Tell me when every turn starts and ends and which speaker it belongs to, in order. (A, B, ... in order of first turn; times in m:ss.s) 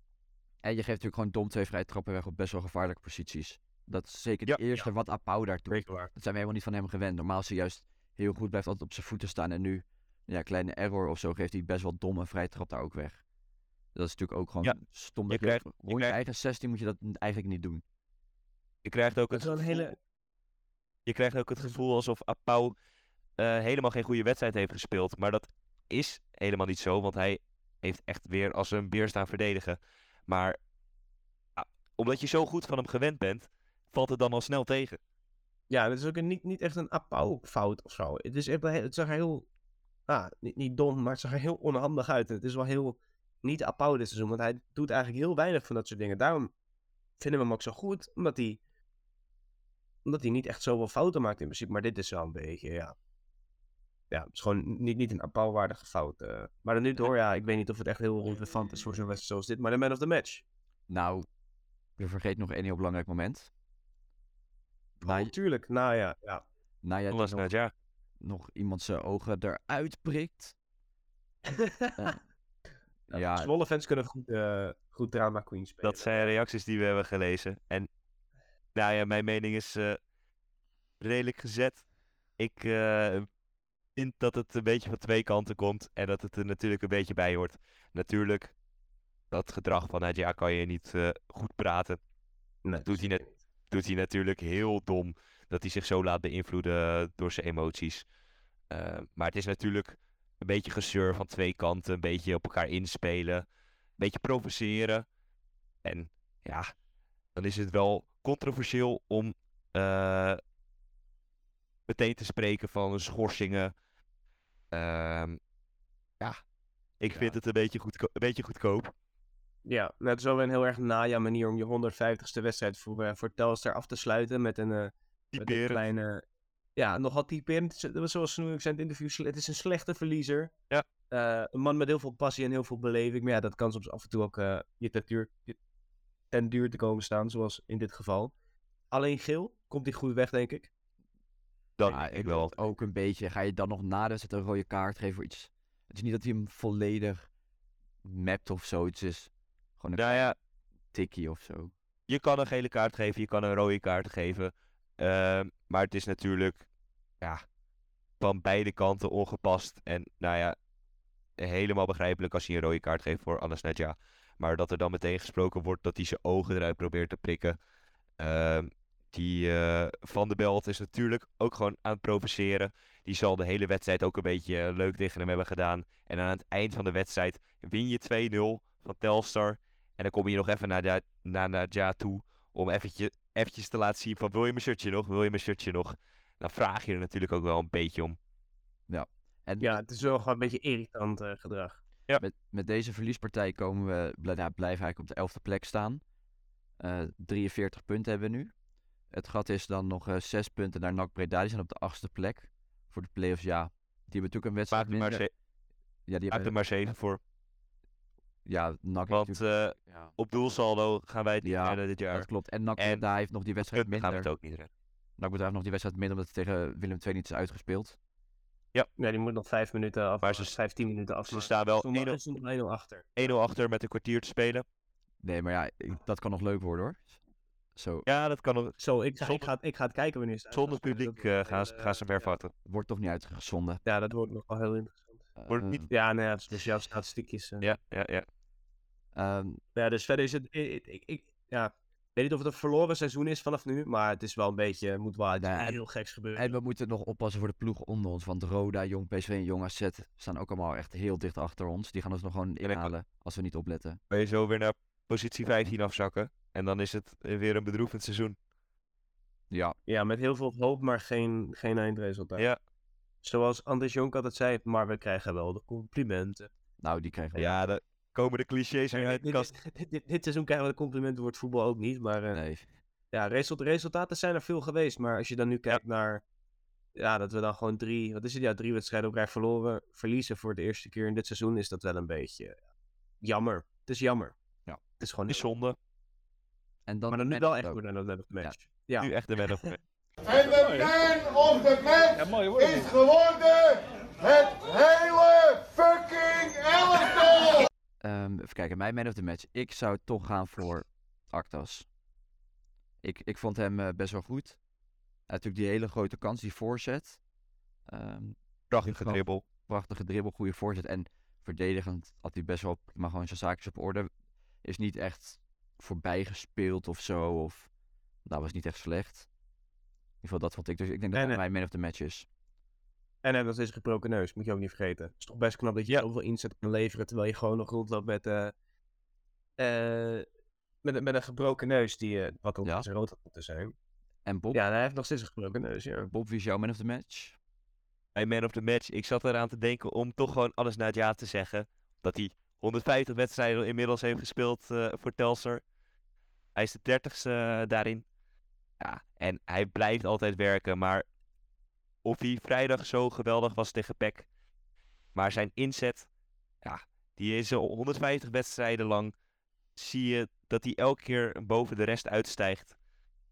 0:00.6-0:13.2 A
0:05.7-0:06.1 B
0:13.9-0:17.8 A
0:15.3-0:16.2 C
0:18.8-0:19.9 C
0:19.3-0:20.0 B
0:21.0-0:22.7 C
0:23.4-0:30.6 C
0:31.6-0:35.0 C
0:35.7-0:39.5 B
0:40.1-0:46.5 B
0:47.2-0:48.6 B
0:50.0-0:52.9 B
0:54.1-1:00.4 B
1:00.9-1:01.2 A
1:02.0-1:03.5 A
1:05.0-1:06.4 B
1:05.0-1:05.3 A
1:06.8-1:07.5 A
1:07.1-1:07.7 C
1:08.2-1:10.6 A
1:11.4-1:12.1 B
1:13.1-1:13.5 A
1:13.1-1:16.3 B
1:15.8-1:17.9 C
1:18.7-1:20.0 C
1:21.0-1:21.8 C
1:22.4-1:23.2 C
1:24.0-1:28.5 C
1:29.3-1:32.0 C
1:32.6-1:33.3 B
1:32.8-1:38.0 C
1:38.7-1:43.4 C
1:44.0-1:45.0 C
1:45.8-1:46.7 C
1:47.4-1:50.4 C
1:51.9-1:53.7 C
1:54.7-1:55.4 C
1:57.0-1:58.9 C
1:59.6-2:06.2 B
2:05.3-2:05.8 C
2:06.8-2:10.5 B
2:11.1-2:15.6 B
2:16.3-2:18.3 B
2:18.9-2:20.7 B
2:21.8-2:22.5 C
2:21.9-2:27.3 A
2:28.0-2:30.3 A
2:29.9-2:30.3 C
2:30.9-2:31.7 A
2:32.1-2:36.6 C
2:38.2-2:40.5 C
2:41.4-2:47.6 C
2:48.2-3:08.2 C
3:08.9-3:09.7 A
3:09.6-3:11.8 B
3:12.2-3:16.0 A
3:16.8-3:18.5 A
3:19.1-3:25.2 A
3:24.7-3:25.3 C
3:26.1-3:26.5 A
3:26.3-3:27.2 C
3:28.4-3:30.1 A
3:29.1-3:33.0 C
3:31.4-3:34.3 A
3:33.7-3:34.7 C
3:35.2-3:38.0 A
3:39.0-3:43.3 B
3:40.2-3:40.5 C
3:41.3-3:42.2 C
3:43.2-3:44.6 C
3:45.2-3:47.2 A
3:47.7-3:48.0 A
3:48.0-3:49.5 C
3:48.8-3:52.3 B
3:50.5-3:52.5 C
3:52.6-3:53.8 A
3:53.8-3:55.2 B
3:55.4-3:55.9 A
3:55.5-3:55.8 C
3:55.9-3:57.6 B
3:57.6-3:58.2 C
3:59.1-3:59.6 A
3:59.8-4:06.5 B
4:05.4-4:05.8 A
4:06.3-4:14.0 A
4:12.6-4:12.9 C
4:14.1-4:18.4 C
4:19.5-4:19.8 A
4:19.9-4:22.4 B
4:23.2-4:26.5 B
4:26.8-4:27.6 A
4:27.4-4:29.5 C
4:28.9-4:32.4 B
4:32.3-4:32.6 A
4:33.1-4:36.2 B
4:37.0-4:42.6 B
4:43.2-4:44.3 B
4:45.0-4:45.4 B
4:45.3-4:45.8 C
4:46.9-4:47.8 A
4:47.1-4:49.7 B
4:49.0-4:49.8 C
4:50.3-4:53.2 D
4:54.6-4:55.0 D
4:58.0-5:01.9 A
5:03.0-5:04.6 A
5:05.3-5:07.2 A
5:07.9-5:14.1 A
5:08.7-5:09.4 C
5:14.6-5:17.7 A
5:18.2-5:19.3 A
5:20.2-5:22.3 A
5:21.1-5:21.4 B
5:23.2-5:28.5 B
5:29.6-5:30.2 B
5:30.8-5:33.7 B
5:34.2-5:34.6 A
5:34.5-5:36.1 B
5:36.0-5:37.4 A
5:38.1-5:45.6 C
5:46.6-5:48.0 C
5:48.8-5:51.0 C
5:52.0-5:54.3 C
5:55.1-5:56.1 C
5:56.6-5:59.1 C
5:59.8-6:02.8 C